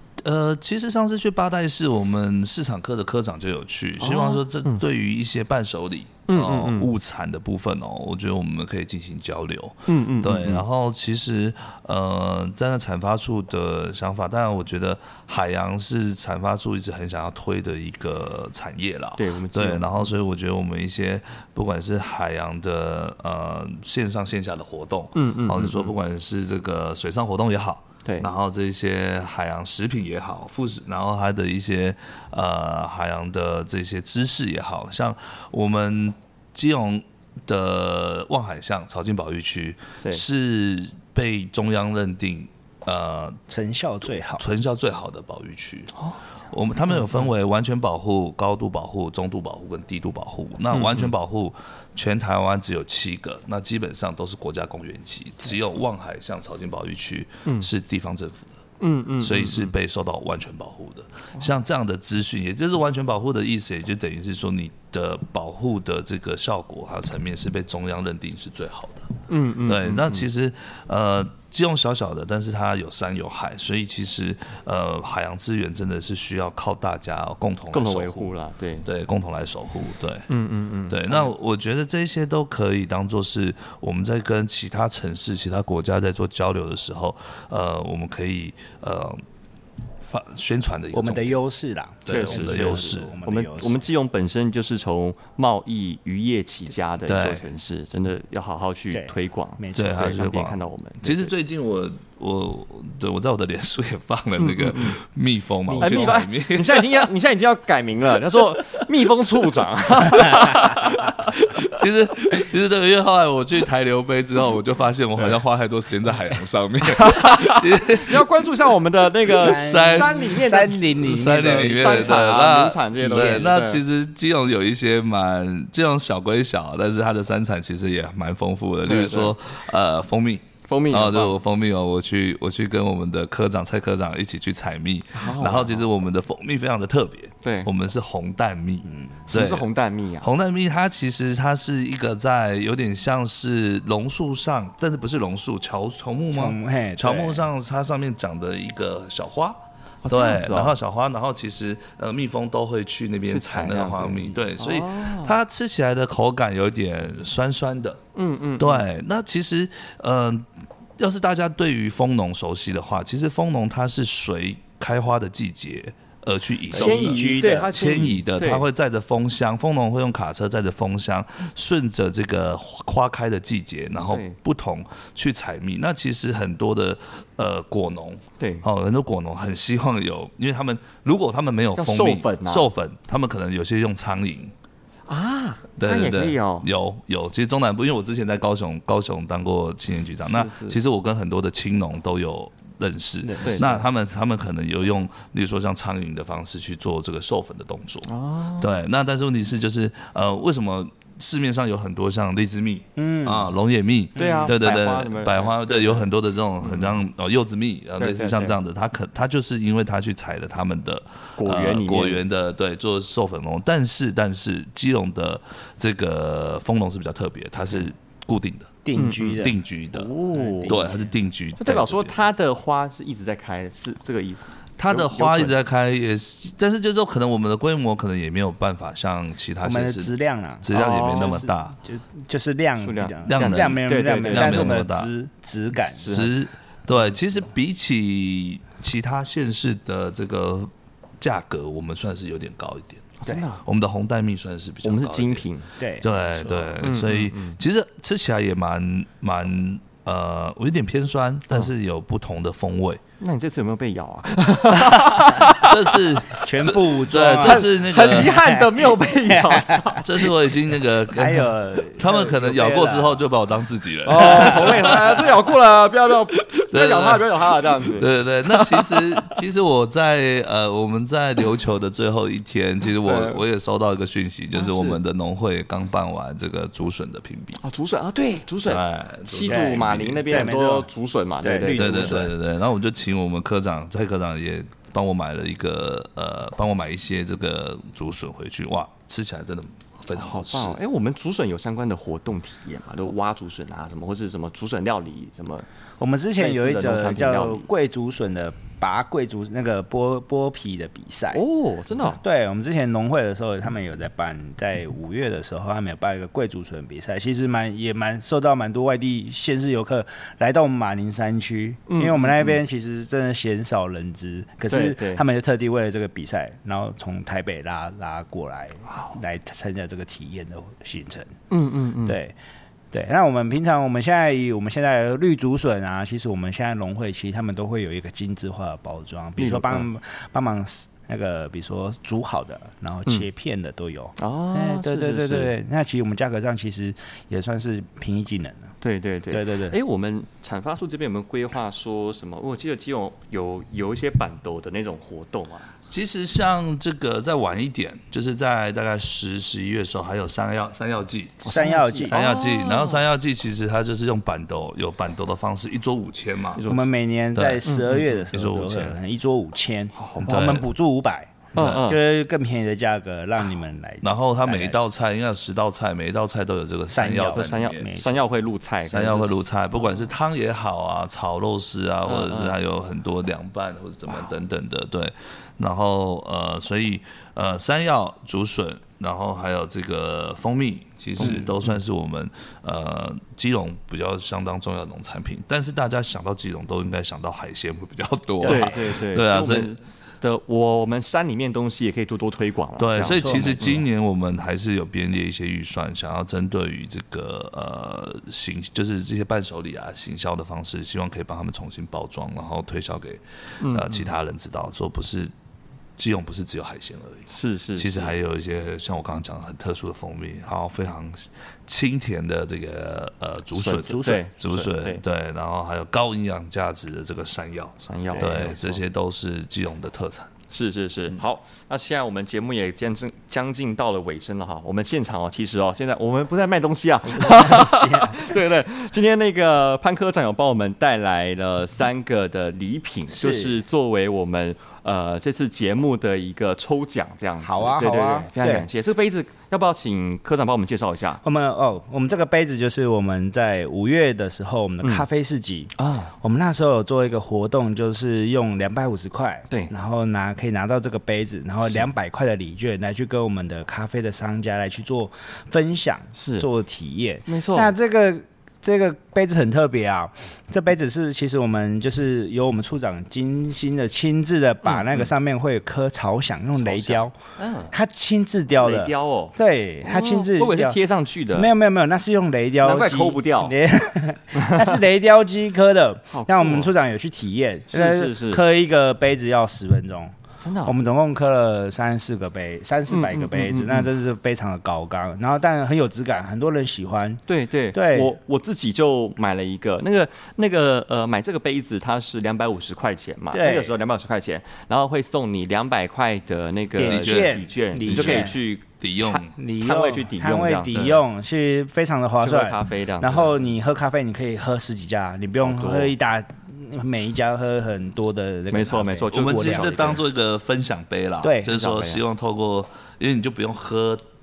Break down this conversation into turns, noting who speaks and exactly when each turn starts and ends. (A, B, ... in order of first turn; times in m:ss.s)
0:00.2-0:43.4 A
0:04.0-0:04.8 B
0:06.3-0:06.9 B
0:09.9-0:10.7 B
0:19.2-0:20.1 B
0:25.2-0:25.9 B
0:43.5-0:44.4 C
0:44.3-0:46.0 A
0:46.0-0:46.2 B
0:46.5-0:58.6 A
0:46.9-0:47.3 B
0:50.7-0:51.1 B
0:58.8-0:59.7 B
0:59.2-1:09.1 A
1:09.3-1:10.3 B
1:09.7-1:20.3 A
1:17.7-1:18.9 B
1:20.3-1:21.3 B
1:20.9-1:29.2 A
1:30.0-1:31.4 A
1:30.9-1:33.8 C
1:32.1-1:33.2 A
1:32.1-1:41.3 B
1:37.1-1:37.5 A
1:38.9-1:40.2 C
1:39.8-1:47.1 A
1:44.4-1:45.0 B
1:45.7-1:46.2 C
1:45.8-1:51.2 B
1:50.1-1:58.4 A
1:56.9-2:03.8 B
1:59.3-2:19.7 A
1:59.4-2:02.2 C
2:08.9-2:09.4 B
2:10.7-2:11.4 B
2:15.1-2:15.9 B
2:17.4-2:17.7 B
2:18.9-2:19.2 C
2:19.3-2:20.3 B
2:20.2-2:38.0 A
2:26.3-2:27.5 C
2:30.0-2:30.8 B
2:33.3-2:35.4 B
2:38.2-2:38.9 B
2:38.6-2:40.5 A
2:41.0-3:04.5 A
2:46.7-2:47.8 C
2:46.7-2:48.7 B
2:54.0-2:54.4 B
2:58.4-2:58.7 B
3:01.8-3:02.7 B
3:05.1-3:06.7 B
3:05.8-3:40.1 A
3:10.2-3:10.8 B
3:13.2-3:13.9 C
3:13.4-3:13.7 B
3:18.1-3:18.7 B
3:23.0-3:23.5 C
3:24.2-3:26.1 B
3:24.2-3:24.5 C
3:26.6-3:27.0 B
3:28.0-3:28.6 B
3:31.4-3:32.2 B
3:38.8-3:39.6 C
3:39.0-3:40.8 B
3:40.3-3:41.2 C
3:40.6-3:42.2 A
3:41.6-3:45.6 B
3:44.8-3:51.8 A
3:49.6-3:56.3 C
3:51.1-3:51.4 B
3:52.8-3:54.8 B
3:53.3-3:55.1 A
3:56.0-3:56.3 B
3:56.1-4:05.5 A
4:03.2-4:03.6 B
4:04.8-4:05.7 B
4:05.8-4:06.7 C
4:06.0-4:13.0 A
4:06.8-4:07.6 B
4:13.2-4:16.0 B
4:14.8-4:18.4 A
4:16.4-4:20.0 C
4:17.4-4:20.3 B
4:20.0-4:25.5 A
4:21.1-4:23.3 C
4:24.0-4:29.3 B
4:24.2-4:24.5 C
4:26.4-4:37.6 A
4:33.0-4:33.4 B
4:34.5-4:35.0 B
4:37.6-4:42.3 B
4:38.6-4:40.6 A
4:39.5-4:40.9 C
4:41.4-4:42.4 C
4:41.6-4:50.8 A
4:50.1-4:55.7 B
4:56.0-5:01.4 C
4:56.4-4:57.7 B
5:01.3-5:02.2 B
5:02.0-5:21.4 C
5:11.9-5:12.6 B
5:14.7-5:15.2 B
5:18.9-5:19.2 B
5:21.5-5:22.2 B
5:22.0-5:22.4 C
5:22.9-5:38.7 C
5:29.4-5:29.9 B
5:34.2-5:35.5 B
5:38.8-5:45.7 B
5:39.3-5:39.8 C
5:45.9-5:51.5 A
5:51.4-5:53.1 B
5:51.5-5:52.2 C
5:52.1-5:56.6 A
5:56.6-5:56.9 B
5:56.7-6:04.8 C
5:57.4-5:59.0 A
5:57.7-5:58.1 B
6:00.0-6:00.5 B
6:00.2-6:00.7 A
6:01.5-6:02.0 B
6:01.6-6:01.9 A
6:04.0-6:07.9 A
6:06.9-6:08.2 C
6:07.3-6:09.4 B
6:08.9-6:29.8 A
6:12.0-6:12.6 B
6:21.2-6:21.8 B
6:28.4-6:28.8 C
6:28.4-6:33.8 B
6:32.8-6:45.3 A
6:33.0-6:33.7 C
6:43.6-6:44.1 B
6:46.0-7:00.3 A
6:47.3-6:48.2 B
6:53.5-6:55.0 B
6:54.0-6:54.2 C
6:57.8-6:58.8 B
6:58.1-6:58.5 C
7:00.5-7:21.2 B
7:07.2-7:08.3 C
7:13.1-7:13.6 C
7:17.4-7:18.7 C
7:21.2-7:47.2 C
7:24.8-7:25.1 B
7:25.8-7:26.1 B
7:36.2-7:36.5 B
7:37.3-7:37.7 B
7:44.6-7:45.1 B
7:46.6-7:47.7 B
7:47.7-7:50.8 C
7:48.6-7:51.5 B
7:51.3-8:08.1 C
7:52.6-7:53.6 B
7:54.3-7:54.8 B
7:56.1-7:56.7 B
7:57.7-7:58.4 B
8:00.4-8:00.7 B
8:02.9-8:03.9 B
8:07.3-8:18.6 B
8:13.3-8:13.8 C
8:16.8-8:18.4 C
8:16.8-8:19.4 A
8:19.0-8:30.0 C
8:19.6-8:20.8 B
8:20.7-8:21.0 A
8:22.2-8:23.4 B
8:25.4-8:25.9 B
8:28.5-8:30.0 B
8:29.1-8:34.0 A
8:31.2-8:31.6 C
8:31.5-8:32.0 B